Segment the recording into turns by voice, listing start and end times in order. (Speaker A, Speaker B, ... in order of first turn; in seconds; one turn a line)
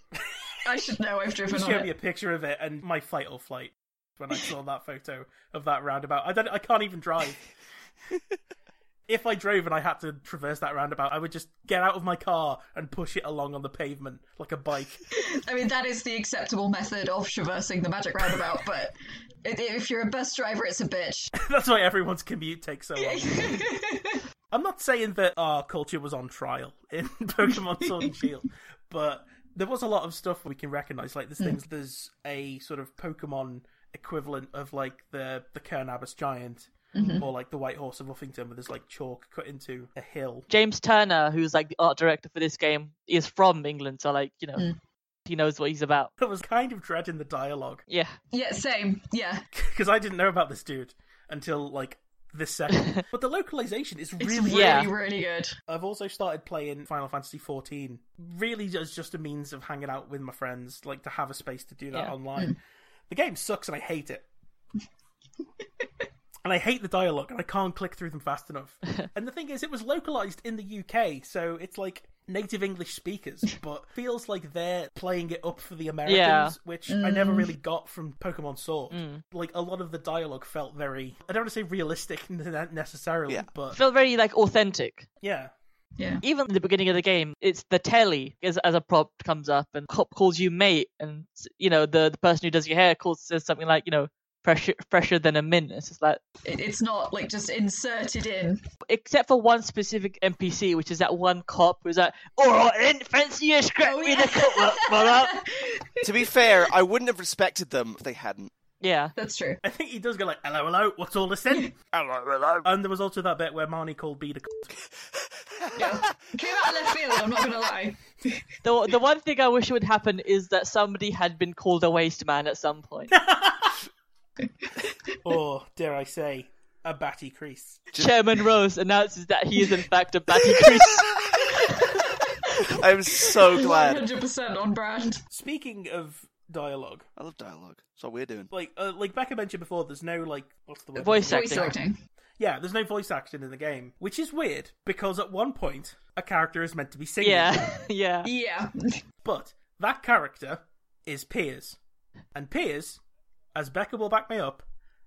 Speaker A: 0.6-1.9
Speaker B: 1.5-7.4
Speaker B: 9.1-15.0
Speaker A: 15.1-21.3
Speaker B: 21.4-23.7
Speaker A: 23.0-24.2
Speaker B: 24.5-40.5
Speaker A: 37.0-37.3
Speaker C: 40.5-44.7
Speaker C: 45.3-46.1
Speaker B: 46.2-47.8
Speaker C: 47.9-48.2
Speaker A: 48.3-49.5
Speaker B: 49.5-54.9
Speaker C: 52.8-53.0
Speaker A: 54.2-55.5
Speaker C: 54.5-54.9
Speaker B: 55.7-62.6
Speaker B: 63.1-64.3
Speaker B: 66.5-83.8
Speaker C: 76.1-76.5
Speaker A: 76.9-77.5
Speaker C: 78.9-79.2
Speaker C: 83.7-85.1
Speaker B: 85.2-85.5
Speaker A: 86.0-86.2
Speaker C: 86.2-96.2
Speaker A: 96.5-98.6
Speaker C: 98.8-105.4
Speaker A: 103.8-106.7
Speaker D: 106.0-108.5
Speaker C: 108.8-109.1
Speaker A: 109.2-109.6
Speaker B: 109.6-111.7
Speaker D: 112.0-112.6
Speaker B: 112.7-114.8
Speaker D: 115.6-116.1
Speaker A: 115.7-118.2
Speaker C: 118.6-123.1
Speaker B: 123.1-123.8
Speaker B: 125.2-127.9
Speaker C: 128.0-131.1
Speaker A: 131.4-135.2
Speaker D: 132.7-134.1
Speaker B: 135.3-137.1
Speaker D: 137.2-138.5
Speaker B: 138.5-141.8
Speaker C: 141.0-141.8
Speaker A: 141.3-142.0
Speaker B: 142.4-147.7
Speaker C: 147.2-148.3
Speaker A: 148.2-149.0
Speaker B: 149.2-151.8
Speaker B: 152.3-153.0
Speaker B: 153.6-154.6